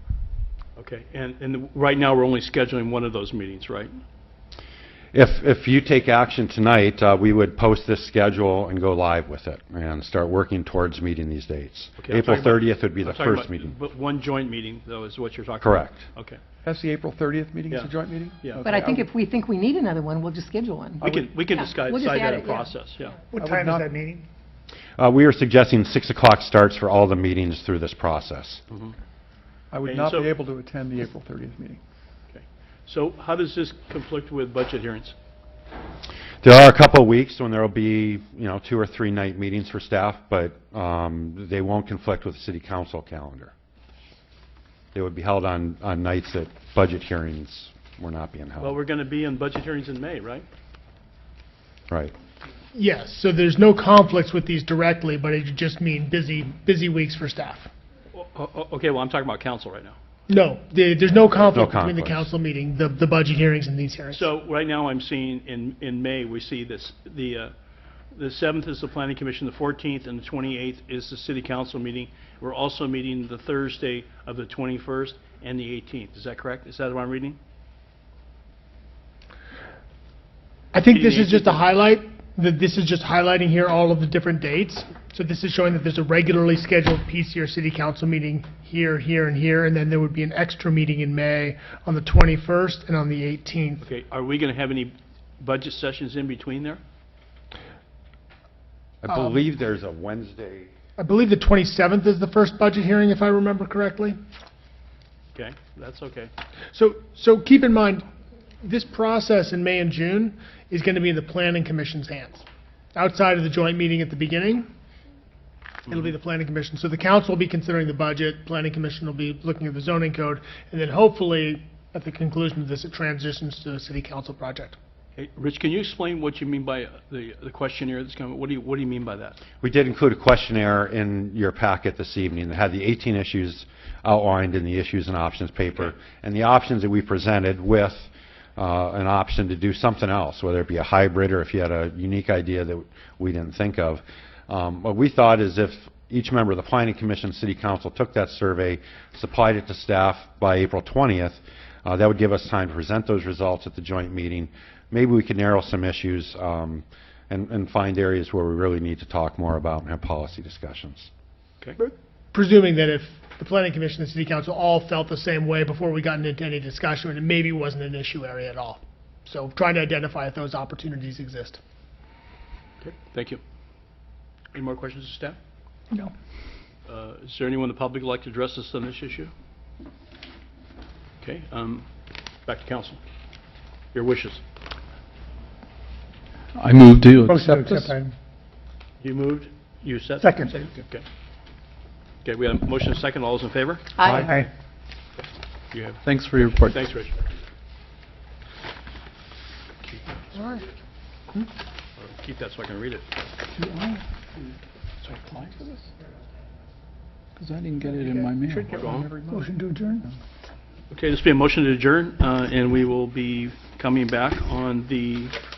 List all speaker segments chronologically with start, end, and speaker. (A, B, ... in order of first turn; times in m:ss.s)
0:00.8-0:03.9 A
0:05.1-0:13.7 B
0:12.0-0:16.4 A
0:15.6-0:16.0 B
0:16.6-0:19.1 C
0:17.7-0:18.6 A
0:18.6-0:22.8 D
0:21.0-0:21.5 C
0:21.0-0:23.2 A
0:23.3-0:24.1 E
0:23.4-0:24.2 C
0:25.0-0:28.6 B
0:29.7-0:31.8 C
0:29.8-0:30.3 A
0:32.3-0:35.2 A
0:36.4-0:43.5 B
0:44.9-0:48.8 B
0:48.6-0:50.4 A
0:52.7-0:57.7 E
0:58.1-1:00.0 A
1:00.3-1:04.3 E
1:01.4-1:02.3 B
1:04.1-1:07.5 A
1:08.1-1:17.4 A
1:20.7-1:33.8 E
1:20.9-1:21.6 A
1:33.8-1:36.8 A
1:39.0-1:40.7 B
1:41.0-1:44.2 E
1:45.4-1:46.3 A
1:46.7-1:48.0 E
1:48.6-1:54.6 E
1:55.9-2:04.8 E
2:05.2-2:09.4 A
2:09.6-2:41.1 B
2:41.8-2:51.6 E
2:52.8-2:53.4 A
2:54.5-2:55.4 A
2:56.9-2:59.3 A
3:01.2-3:01.9 A
3:02.4-3:03.0 A
3:03.9-3:04.4 A
3:06.6-3:07.9 F
3:09.0-3:11.0 A
3:12.2-3:13.9 A
3:14.0-3:14.4 D
3:14.1-3:14.4 F
3:15.7-3:16.0 A
3:16.0-3:16.8 F
3:16.7-3:17.2 A
3:19.8-3:20.2 A
3:22.0-3:23.1 A
3:25.0-3:25.7 A
3:27.4-3:28.8 F
3:27.8-3:29.6 C
3:28.7-3:29.1 A
3:30.9-3:35.3 A